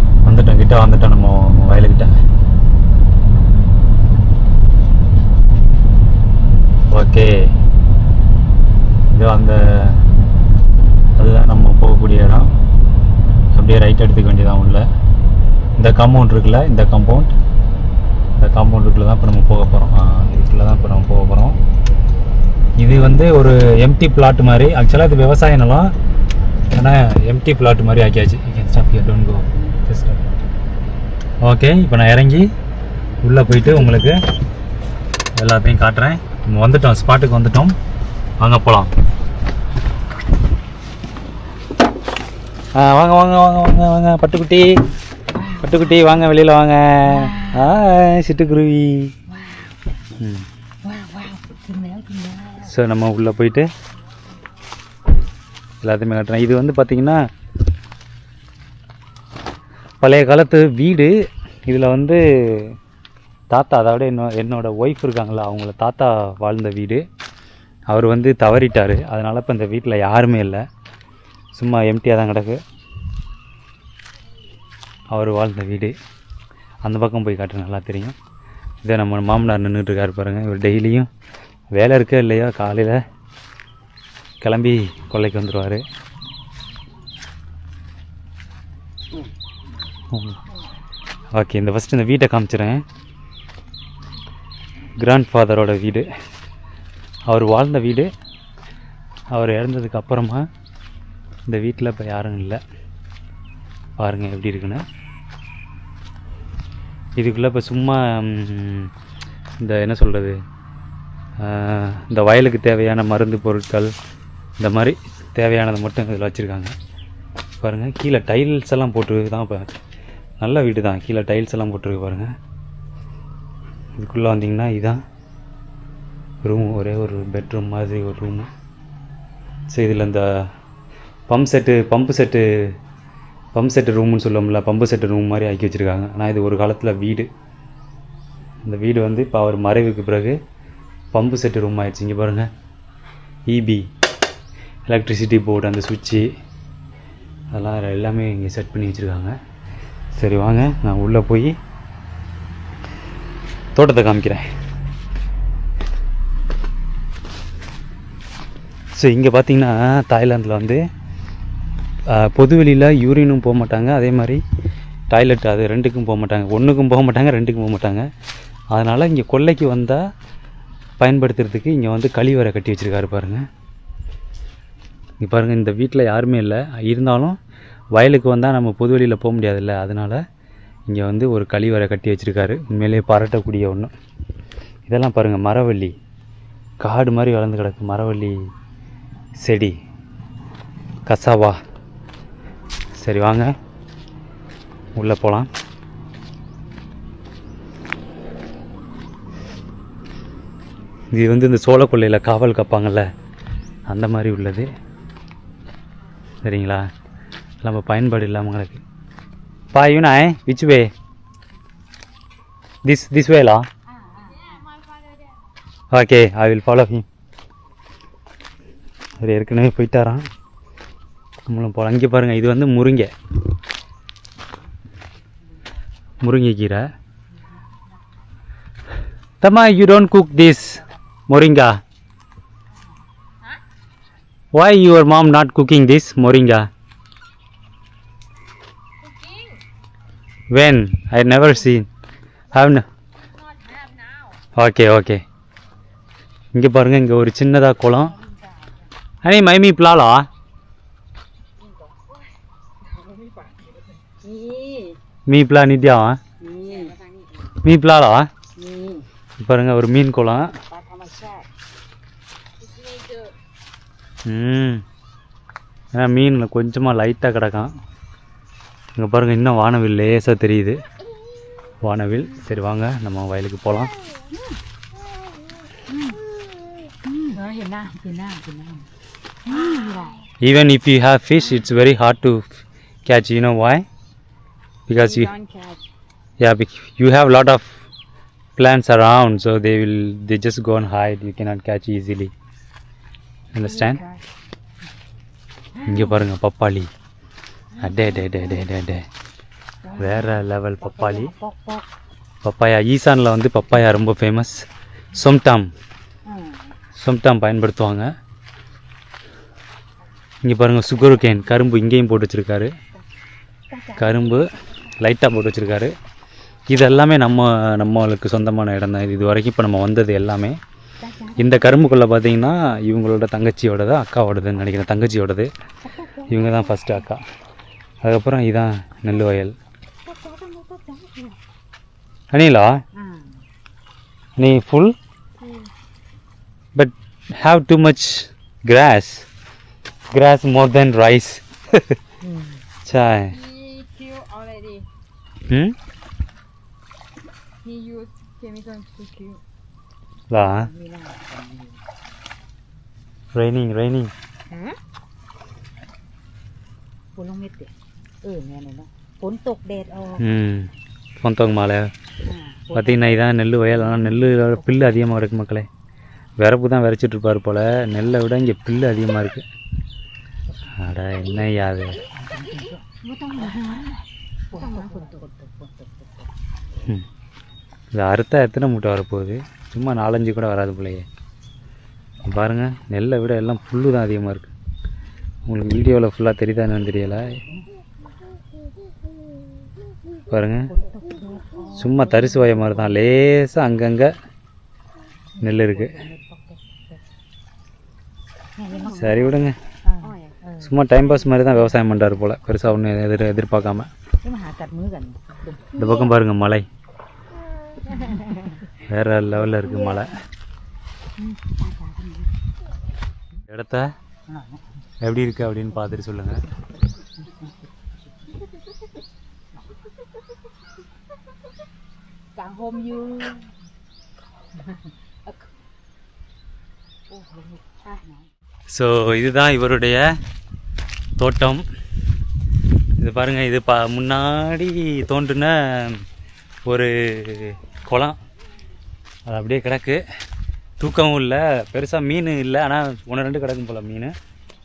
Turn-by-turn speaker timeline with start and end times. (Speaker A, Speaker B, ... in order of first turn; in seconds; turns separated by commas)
Speaker A: 0.2-2.1, Speaker A: 6.9-7.5, Speaker A: 9.1-10.0, Speaker A: 11.2-12.5, Speaker A: 13.6-14.8, Speaker A: 15.8-17.3, Speaker A: 18.4-21.6, Speaker A: 22.8-25.9, Speaker A: 26.7-30.3, Speaker A: 31.4-32.5, Speaker A: 33.2-34.2, Speaker A: 35.4-37.8, Speaker A: 38.4-38.9, Speaker A: 42.8-44.8, Speaker B: 45.3-46.1, Speaker A: 45.6-49.1, Speaker B: 47.1-47.7, Speaker A: 50.2-50.5, Speaker B: 50.8-52.8, Speaker A: 52.6-53.7, Speaker A: 55.8-57.3, Speaker A: 60.0-62.8, Speaker A: 63.5-67.0, Speaker A: 67.9-70.7, Speaker A: 71.5-72.6, Speaker A: 75.1-76.0, Speaker A: 76.8-78.2, Speaker A: 78.8-81.1, Speaker A: 81.7-83.0, Speaker A: 84.4-85.8, Speaker A: 91.3-92.8, Speaker A: 95.0-96.1, Speaker A: 97.3-98.1, Speaker A: 99.3-100.5, Speaker A: 101.5-102.6, Speaker A: 104.0-104.8, Speaker A: 107.2-108.9, Speaker A: 109.6-110.4, Speaker A: 111.4-113.9, Speaker A: 114.6-116.8, Speaker A: 117.6-119.7, Speaker A: 120.4-122.3, Speaker A: 124.0-125.0, Speaker A: 126.4-128.5, Speaker A: 129.7-130.5, Speaker A: 131.3-132.7, Speaker A: 133.5-137.3, Speaker A: 138.6-140.4, Speaker A: 141.1-142.5, Speaker A: 143.5-143.9, Speaker A: 144.9-146.3, Speaker A: 147.5-149.4, Speaker A: 150.2-151.6, Speaker A: 153.8-154.5, Speaker A: 158.9-160.8, Speaker A: 162.1-164.4, Speaker A: 165.1-168.1, Speaker A: 168.7-170.1, Speaker A: 171.0-173.5, Speaker A: 175.2-177.4, Speaker A: 177.9-180.2, Speaker A: 180.9-183.9, Speaker A: 184.9-185.9, Speaker A: 186.8-188.4, Speaker A: 189.4-189.8, Speaker A: 191.1-191.6, Speaker A: 193.0-193.6, Speaker A: 195.0-195.5, Speaker A: 201.1-203.1, Speaker A: 203.9-204.7, Speaker A: 206.4-206.9, Speaker A: 207.6-208.8, Speaker A: 209.7-210.9, Speaker A: 212.8-213.7, Speaker B: 213.9-214.6, Speaker C: 214.2-215.3, Speaker A: 215.9-217.1, Speaker A: 219.2-220.3, Speaker A: 221.5-223.1, Speaker A: 226.2-226.9, Speaker A: 229.4-231.8, Speaker A: 234.5-236.7, Speaker C: 239.0-239.6, Speaker A: 240.5-241.9, Speaker A: 242.5-242.8, Speaker C: 243.6-244.3, Speaker A: 244.6-245.2, Speaker A: 246.5-248.2, Speaker A: 249.2-250.3, Speaker C: 252.9-253.7, Speaker C: 254.2-254.9, Speaker A: 255.3-256.2, Speaker B: 256.4-256.9, Speaker C: 256.4-257.5, Speaker A: 257.6-258.3, Speaker A: 259.4-260.5, Speaker B: 260.8-261.3, Speaker C: 262.6-263.3, Speaker A: 264.3-264.8, Speaker A: 265.9-267.7, Speaker A: 269.0-270.8, Speaker A: 271.8-273.9, Speaker B: 274.3-274.6, Speaker B: 275.9-276.2, Speaker B: 277.0-278.9, Speaker C: 277.3-277.9, Speaker B: 279.4-280.2, Speaker C: 279.5-280.2, Speaker A: 280.4-282.5, Speaker A: 283.1-283.9, Speaker A: 284.9-285.3, Speaker C: 285.0-285.9, Speaker A: 286.4-287.8, Speaker A: 288.6-292.3, Speaker A: 293.5-294.0, Speaker C: 293.6-294.2, Speaker A: 295.9-296.9, Speaker A: 297.8-299.1, Speaker B: 297.8-298.2, Speaker B: 299.9-301.9, Speaker A: 300.0-301.3, Speaker A: 302.4-304.6, Speaker A: 305.1-305.7, Speaker B: 306.3-306.8, Speaker A: 307.0-308.1, Speaker A: 310.4-312.7, Speaker B: 313.7-314.4, Speaker A: 314.0-315.9, Speaker A: 316.7-320.6, Speaker B: 321.0-321.8, Speaker A: 321.4-325.5, Speaker B: 325.8-326.8, Speaker A: 326.3-327.2, Speaker A: 328.0-329.6, Speaker B: 330.1-331.4, Speaker A: 332.3-332.8, Speaker B: 332.9-333.4, Speaker A: 334.4-335.0, Speaker C: 335.4-335.7, Speaker A: 336.8-339.3, Speaker A: 340.1-342.0, Speaker B: 342.2-342.6, Speaker A: 342.9-343.4, Speaker C: 343.3-344.9, Speaker A: 345.5-345.8, Speaker C: 347.6-349.4, Speaker A: 350.3-350.7, Speaker B: 350.3-351.8, Speaker A: 353.3-354.1, Speaker B: 354.5-354.8, Speaker B: 357.1-360.3, Speaker A: 360.2-361.9, Speaker B: 362.3-363.2, Speaker A: 362.7-365.7, Speaker B: 363.8-364.7, Speaker A: 366.4-369.5, Speaker A: 370.7-372.0, Speaker B: 372.1-376.3, Speaker C: 374.5-375.1, Speaker A: 377.9-381.1, Speaker A: 382.2-384.5, Speaker A: 385.5-387.4, Speaker A: 390.3-390.7, Speaker B: 390.7-393.0, Speaker A: 391.8-394.1, Speaker B: 395.4-397.0, Speaker A: 395.4-396.0, Speaker B: 398.6-400.8, Speaker A: 398.9-399.6, Speaker C: 400.0-400.3, Speaker A: 400.6-403.9, Speaker B: 404.2-406.1, Speaker A: 405.8-406.7, Speaker B: 407.9-408.5, Speaker A: 408.9-410.1, Speaker B: 409.6-410.1, Speaker B: 411.2-412.3, Speaker A: 413.5-413.9, Speaker B: 414.3-414.6, Speaker A: 415.0-416.4, Speaker B: 417.2-417.5, Speaker B: 422.4-423.5, Speaker B: 427.1-428.3, Speaker A: 428.7-430.2, Speaker A: 431.2-431.7, Speaker A: 433.0-436.0, Speaker A: 436.7-438.2, Speaker A: 439.3-440.0, Speaker A: 440.8-444.1